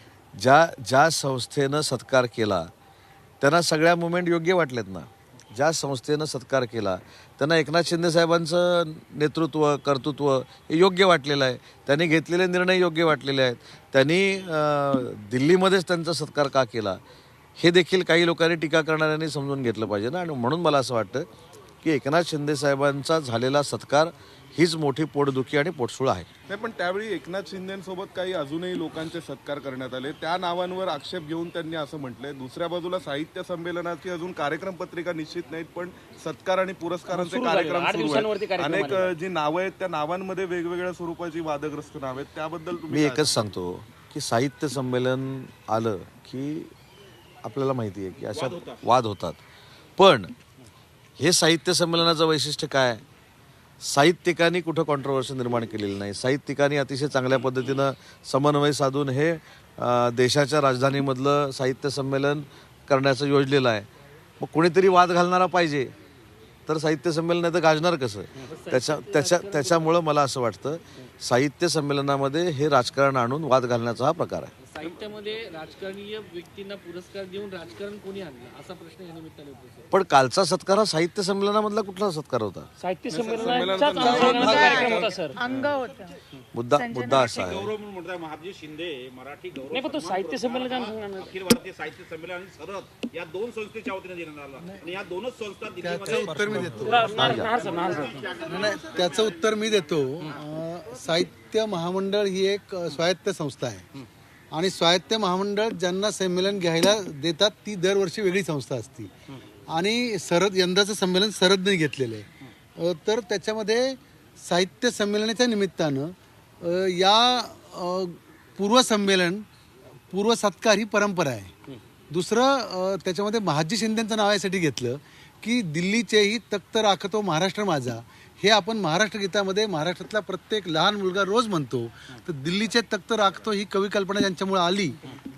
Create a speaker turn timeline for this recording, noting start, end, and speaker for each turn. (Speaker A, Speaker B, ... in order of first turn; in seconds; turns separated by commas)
Speaker A: 0.4-2.7, Speaker A: 3.4-17.0, Speaker A: 17.6-21.2, Speaker A: 21.8-26.3, Speaker B: 26.5-43.4, Speaker C: 37.2-39.1, Speaker A: 42.9-46.7, Speaker A: 47.4-49.4, Speaker D: 48.3-48.8, Speaker A: 50.0-50.3, Speaker A: 51.2-53.0, Speaker A: 53.8-63.9, Speaker A: 64.4-65.9, Speaker A: 66.7-74.5, Speaker E: 68.4-69.9, Speaker E: 74.6-79.9, Speaker A: 79.9-82.7, Speaker C: 82.8-85.4, Speaker B: 83.1-85.2, Speaker F: 84.0-86.2, Speaker E: 84.0-84.7, Speaker A: 86.5-87.7, Speaker F: 86.7-87.5, Speaker D: 87.3-100.5, Speaker C: 89.7-91.3, Speaker G: 95.8-97.1, Speaker B: 96.2-96.6, Speaker C: 96.8-98.3, Speaker A: 97.1-97.6, Speaker G: 98.4-103.9, Speaker G: 104.5-109.1, Speaker G: 109.7-119.4, Speaker G: 120.1-121.5, Speaker G: 122.1-135.0